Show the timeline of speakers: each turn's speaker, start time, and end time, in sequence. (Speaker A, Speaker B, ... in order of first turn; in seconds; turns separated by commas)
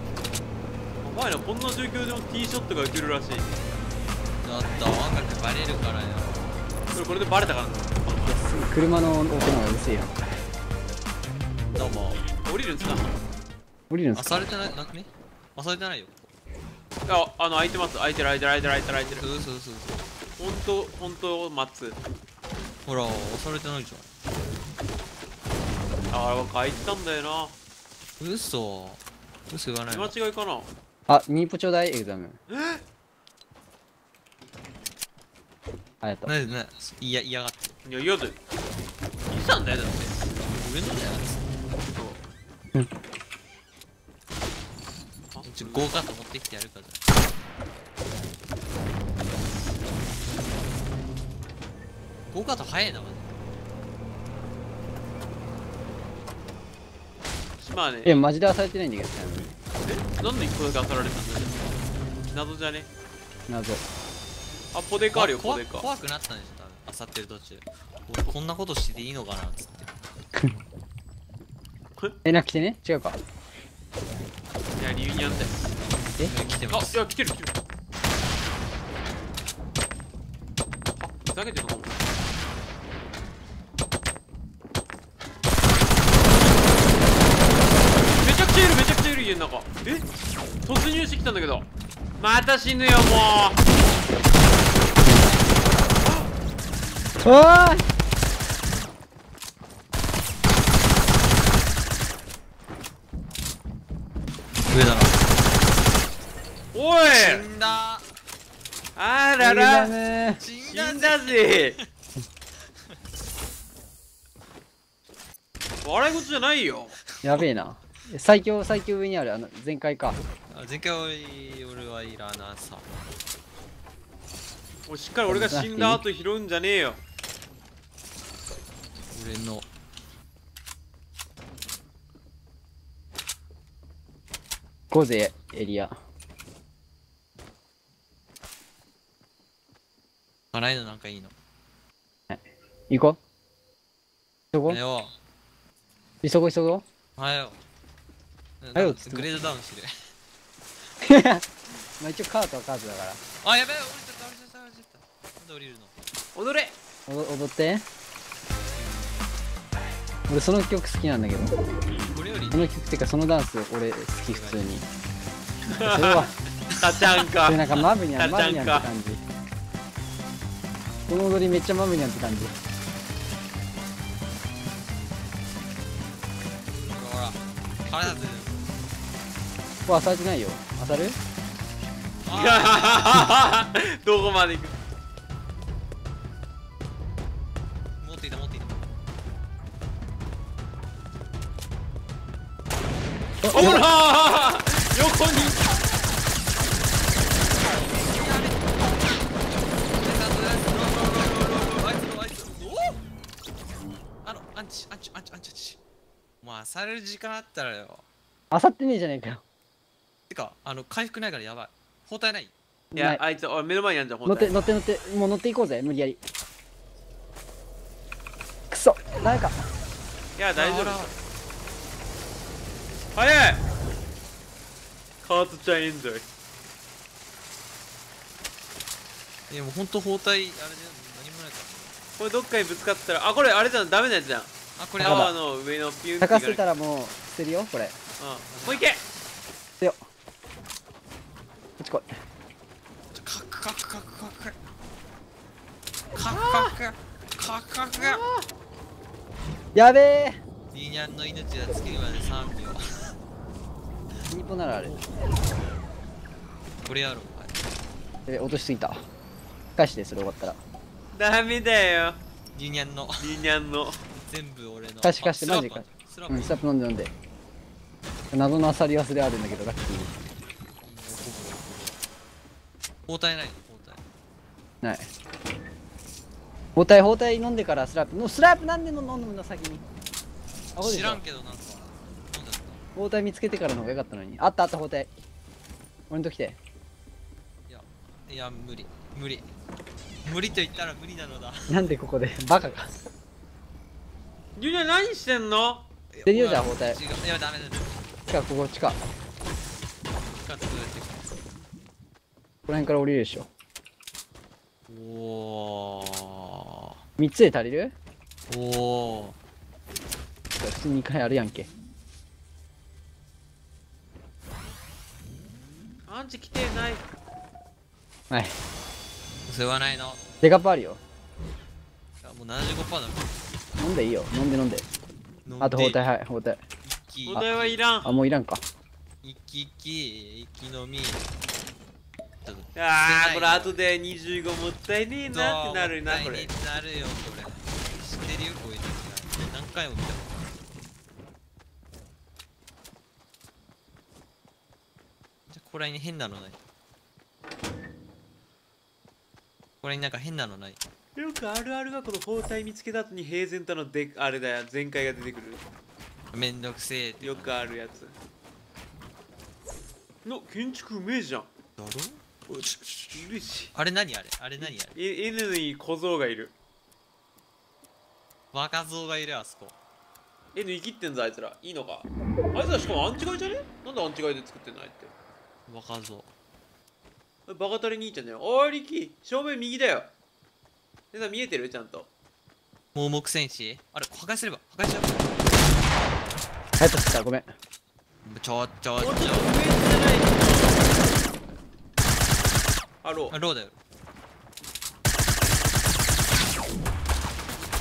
Speaker A: 1.0-3.5, Speaker B: 4.4-6.7, Speaker A: 6.9-8.3, Speaker C: 8.2-10.1, Speaker B: 11.7-12.2, Speaker A: 12.4-13.2, Speaker C: 13.9-14.3, Speaker B: 14.1-16.3, Speaker A: 17.1-19.2, Speaker B: 19.1-19.9, Speaker A: 20.4-22.0, Speaker B: 22.9-24.1, Speaker A: 26.1-27.6, Speaker B: 28.2-30.1, Speaker A: 29.9-30.7, Speaker C: 31.1-32.4, Speaker A: 32.5-32.8, Speaker C: 36.0-36.3, Speaker B: 36.3-37.8, Speaker A: 37.9-38.4, Speaker A: 39.3-40.2, Speaker B: 40.5-41.4, Speaker A: 41.9-42.2, Speaker A: 45.3-46.0, Speaker B: 45.4-47.0, Speaker B: 52.3-53.4, Speaker A: 57.6-58.2, Speaker C: 58.0-59.5, Speaker A: 59.8-61.6, Speaker A: 62.3-62.9, Speaker C: 63.5-63.8, Speaker A: 64.7-65.9, Speaker B: 65.1-69.9, Speaker C: 72.2-73.2, Speaker A: 74.8-75.7, Speaker B: 76.2-77.0, Speaker A: 76.7-77.5, Speaker A: 81.0-82.0, Speaker A: 88.2-90.1, Speaker A: 90.6-93.6, Speaker C: 97.2-97.9, Speaker B: 104.7-105.2, Speaker A: 106.7-107.5, Speaker B: 107.1-108.0, Speaker A: 109.0-109.9, Speaker C: 109.4-110.4, Speaker B: 110.4-111.9, Speaker A: 110.7-111.8, Speaker A: 115.8-117.0, Speaker C: 117.2-120.2, Speaker B: 120.5-122.9, Speaker A: 124.9-127.0, Speaker C: 125.3-126.0, Speaker B: 129.1-129.7, Speaker C: 134.9-135.9, Speaker B: 140.5-141.3, Speaker C: 142.3-143.2, Speaker C: 144.5-144.8, Speaker B: 144.7-145.2, Speaker C: 146.2-146.8, Speaker B: 147.2-147.6, Speaker B: 148.6-149.9, Speaker C: 148.8-149.3, Speaker C: 151.0-151.5, Speaker C: 152.0-153.2, Speaker B: 153.4-155.9, Speaker A: 156.3-156.8, Speaker C: 157.1-157.8, Speaker B: 158.8-159.4, Speaker C: 160.3-161.6, Speaker B: 162.1-162.7, Speaker C: 162.5-164.8, Speaker B: 164.3-164.7, Speaker A: 165.7-168.9, Speaker C: 165.9-166.3, Speaker C: 167.5-169.2, Speaker C: 171.1-172.6, Speaker B: 176.9-178.7, Speaker C: 179.9-181.2, Speaker B: 182.2-183.2, Speaker A: 182.3-184.8, Speaker B: 188.0-188.9, Speaker C: 193.4-193.8, Speaker A: 193.5-195.7, Speaker B: 197.8-199.3, Speaker B: 199.9-203.0, Speaker B: 204.2-205.8, Speaker B: 206.4-208.1, Speaker C: 208.5-209.4, Speaker B: 210.3-212.5, Speaker C: 212.9-213.2, Speaker A: 213.0-214.6, Speaker C: 214.3-216.2, Speaker C: 218.7-219.6, Speaker A: 220.4-221.2, Speaker B: 220.6-221.2, Speaker A: 223.2-223.7, Speaker A: 225.2-226.3, Speaker B: 229.5-231.9, Speaker A: 232.2-234.5, Speaker B: 234.8-235.3, Speaker C: 235.0-235.3, Speaker A: 235.0-236.6, Speaker C: 236.2-238.0, Speaker A: 238.2-239.0, Speaker B: 238.5-238.8, Speaker C: 241.8-242.2, Speaker B: 243.2-244.6, Speaker B: 246.1-248.2, Speaker A: 246.3-246.8, Speaker A: 248.0-248.5, Speaker C: 249.8-250.4, Speaker B: 250.7-253.2, Speaker C: 254.3-255.0, Speaker B: 256.8-257.6, Speaker C: 258.3-259.1, Speaker C: 259.8-260.6, Speaker A: 261.1-262.2, Speaker B: 262.5-263.3, Speaker A: 263.2-264.0, Speaker B: 264.2-266.6, Speaker C: 265.0-267.1, Speaker C: 268.3-270.1, Speaker B: 270.8-272.0, Speaker B: 273.1-274.0, Speaker C: 274.8-275.1, Speaker C: 276.8-279.8, Speaker C: 280.8-281.2, Speaker B: 280.8-282.8, Speaker C: 283.0-285.1, Speaker C: 286.1-286.6, Speaker B: 287.7-289.5, Speaker B: 290.2-291.9, Speaker C: 291.7-292.9, Speaker A: 294.6-295.9, Speaker B: 296.1-298.1, Speaker C: 296.3-297.0, Speaker C: 298.3-299.0, Speaker B: 300.3-301.2, Speaker C: 302.7-303.5, Speaker B: 304.9-306.9, Speaker C: 307.2-307.9, Speaker B: 308.5-309.4, Speaker C: 310.6-311.7, Speaker A: 316.1-317.1, Speaker C: 318.3-318.6, Speaker B: 319.5-320.2, Speaker C: 320.4-321.0, Speaker B: 322.2-323.4, Speaker C: 323.8-324.9, Speaker B: 325.4-326.0, Speaker C: 325.6-326.6, Speaker B: 326.8-327.8, Speaker A: 327.2-328.1, Speaker C: 328.0-328.6, Speaker B: 329.2-331.2, Speaker B: 332.4-333.8, Speaker A: 332.8-336.5, Speaker B: 335.3-340.4, Speaker B: 345.5-346.6, Speaker B: 349.8-350.8, Speaker A: 351.2-355.6, Speaker B: 356.3-357.6, Speaker A: 357.2-358.1, Speaker A: 360.2-361.5, Speaker B: 361.8-365.0, Speaker A: 363.1-363.7, Speaker A: 364.6-366.5, Speaker B: 368.5-369.8, Speaker A: 370.6-375.1, Speaker B: 375.7-376.3, Speaker A: 377.5-380.1, Speaker A: 381.1-382.1, Speaker B: 382.9-385.3, Speaker C: 386.8-387.5, Speaker B: 388.2-389.5, Speaker A: 389.0-390.9, Speaker A: 393.0-393.4, Speaker B: 393.3-393.8